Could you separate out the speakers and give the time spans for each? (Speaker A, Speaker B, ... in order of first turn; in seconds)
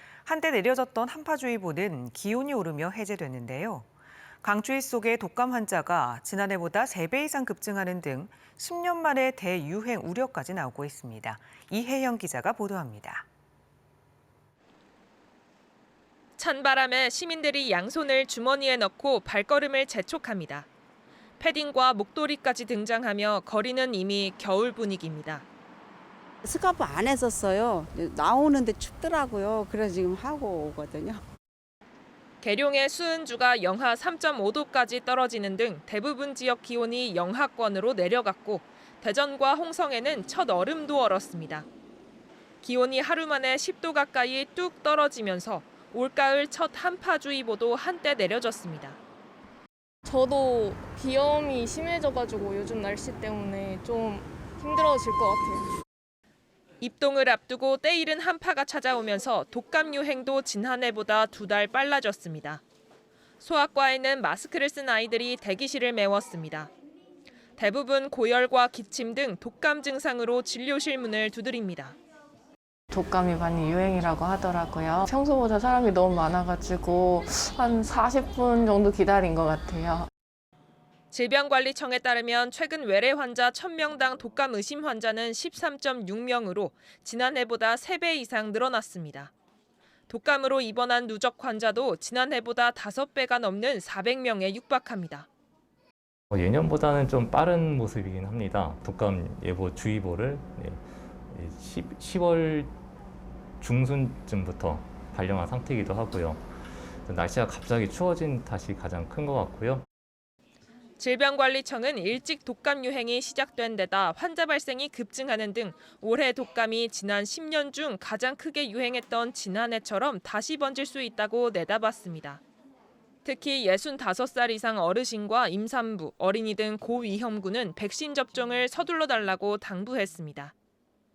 Speaker A: 0.2-3.9, 4.4-13.2
Speaker B: 16.4-20.7, 21.4-25.4, 32.4-41.7, 42.6-49.0, 56.8-62.6, 63.4-66.7, 67.6-72.0, 81.1-89.3, 90.1-95.3, 111.0-122.4, 123.2-130.5
Speaker C: 26.4-31.2
Speaker D: 50.0-55.7
Speaker E: 72.9-80.1
Speaker F: 96.4-100.8, 101.4-102.7, 103.6-106.3, 107.1-109.8